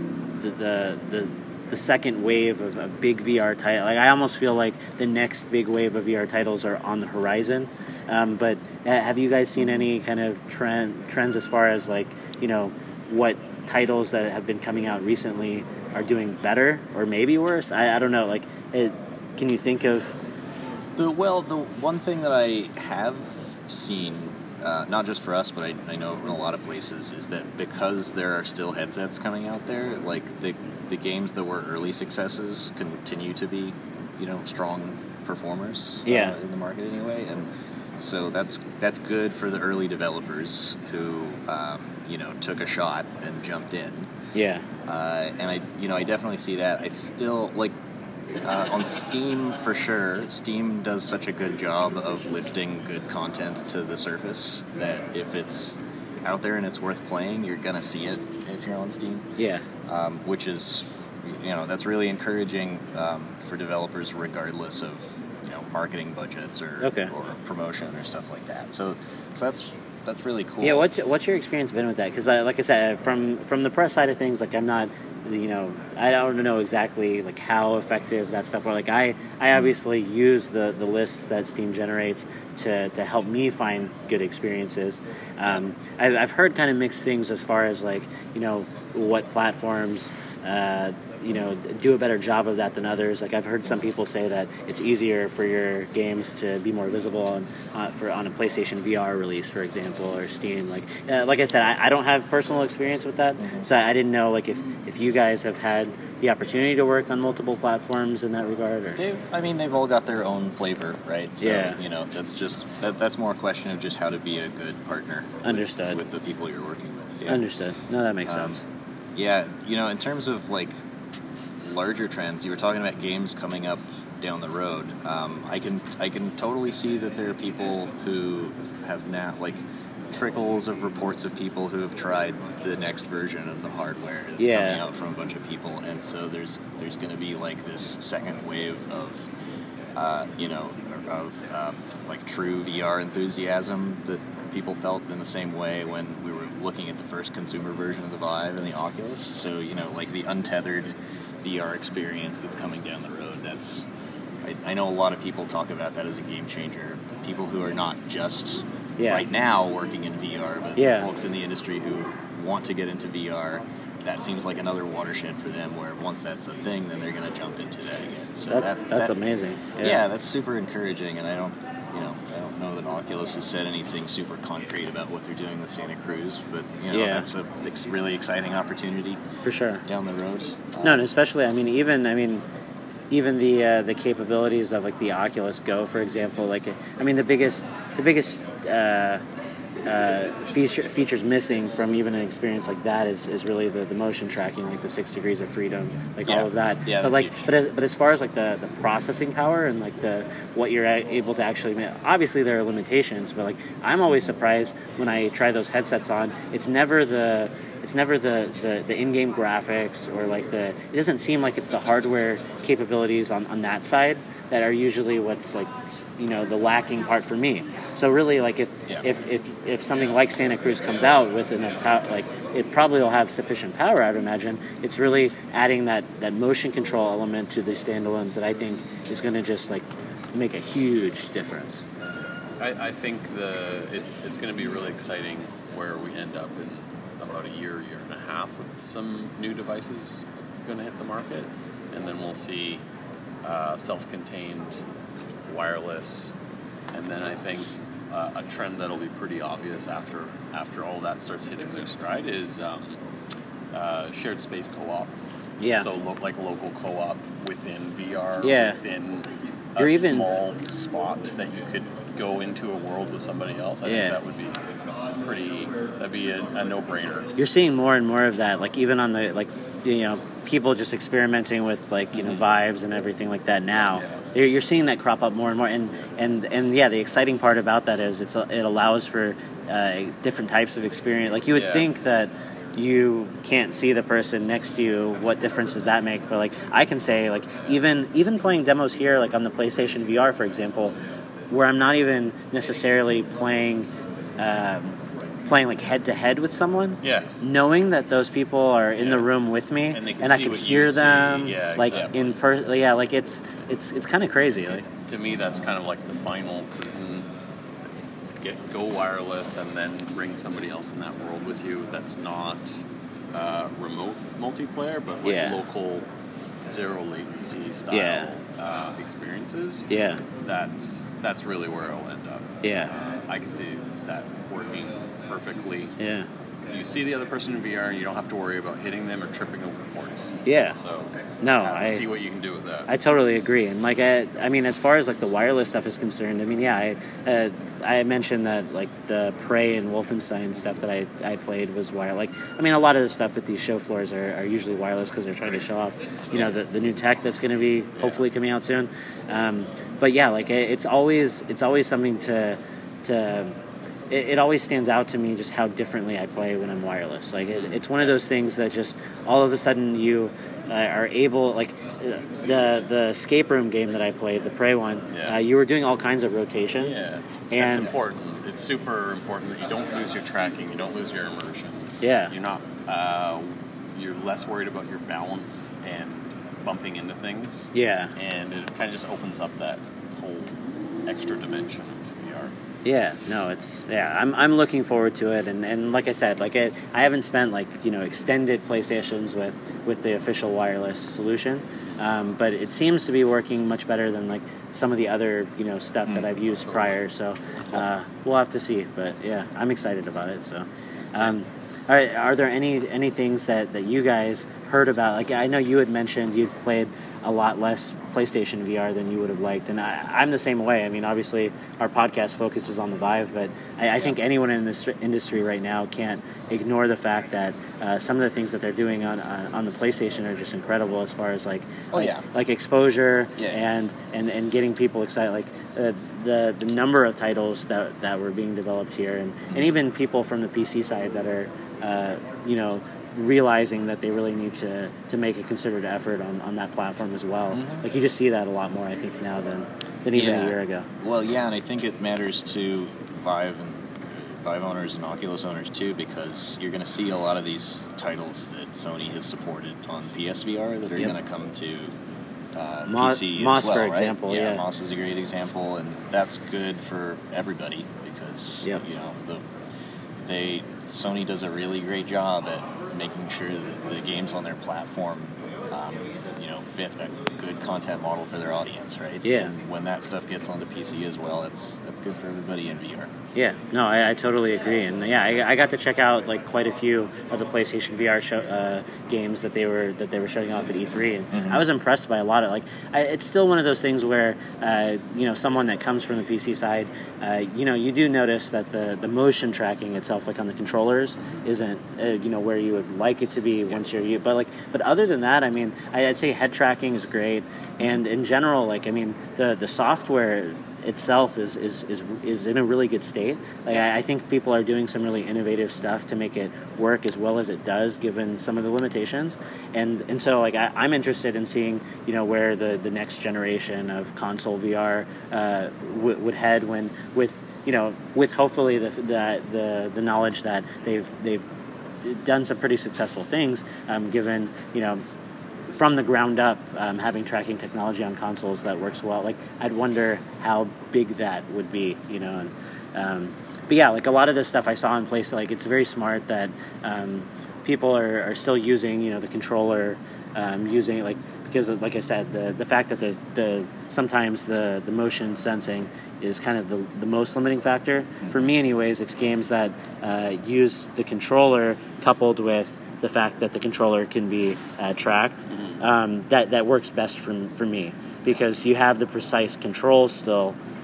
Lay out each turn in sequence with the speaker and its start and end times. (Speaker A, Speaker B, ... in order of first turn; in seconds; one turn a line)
Speaker A: 0.4-20.1
Speaker B: 21.0-44.1
Speaker A: 36.1-36.4
Speaker A: 44.3-44.6
Speaker B: 44.9-47.8
Speaker B: 48.4-59.3
Speaker A: 59.4-59.6
Speaker B: 59.9-71.0
Speaker A: 66.8-67.1
Speaker A: 70.6-109.0
Speaker B: 103.4-103.7
Speaker B: 109.0-117.4
Speaker A: 111.4-111.8
Speaker A: 115.4-116.0
Speaker A: 117.3-118.6
Speaker B: 118.3-118.6
Speaker B: 119.2-120.8
Speaker B: 121.6-139.3
Speaker A: 134.4-134.8
Speaker B: 139.9-153.9
Speaker B: 154.4-169.2
Speaker A: 159.0-159.3
Speaker A: 160.8-161.1
Speaker A: 168.5-170.0
Speaker B: 169.8-179.2
Speaker A: 176.9-177.3
Speaker A: 179.4-179.8
Speaker B: 179.8-181.1
Speaker A: 180.8-182.4
Speaker A: 183.1-189.2
Speaker A: 189.9-231.9
Speaker B: 196.3-197.4
Speaker C: 232.6-242.8
Speaker C: 243.4-244.8
Speaker C: 245.5-246.3
Speaker C: 246.9-253.0
Speaker C: 253.7-255.1
Speaker A: 255.6-255.9
Speaker C: 255.8-267.3
Speaker A: 258.4-258.8
Speaker A: 259.8-260.3
Speaker A: 263.8-264.2
Speaker A: 267.4-290.9
Speaker C: 273.9-274.2
Speaker C: 281.6-281.9
Speaker A: 291.5-304.9
Speaker C: 297.0-297.4
Speaker C: 299.0-299.3
Speaker C: 299.9-302.3
Speaker C: 305.1-307.3
Speaker C: 308.4-312.8
Speaker C: 313.3-316.1
Speaker A: 315.2-315.6
Speaker C: 316.6-325.9
Speaker A: 317.9-318.3
Speaker A: 319.9-320.2
Speaker A: 322.6-322.9
Speaker A: 326.0-326.3
Speaker C: 326.7-332.9
Speaker A: 330.5-330.8
Speaker A: 331.4-332.0
Speaker A: 332.9-353.6
Speaker A: 354.1-367.0
Speaker C: 357.4-358.0
Speaker C: 365.1-365.4
Speaker C: 366.8-382.5
Speaker A: 367.5-367.9
Speaker A: 372.0-372.3
Speaker A: 377.7-378.1
Speaker A: 382.9-440.9
Speaker C: 396.6-397.0
Speaker C: 401.0-401.4
Speaker B: 421.9-422.2
Speaker B: 429.5-429.8
Speaker B: 437.5-437.9
Speaker B: 440.1-451.9
Speaker B: 452.5-459.4
Speaker A: 452.9-454.6
Speaker B: 460.2-473.1
Speaker A: 469.2-469.5
Speaker A: 473.4-521.4
Speaker B: 481.3-481.6
Speaker A: 522.0-525.0
Speaker A: 525.7-560.6
Speaker C: 555.5-555.8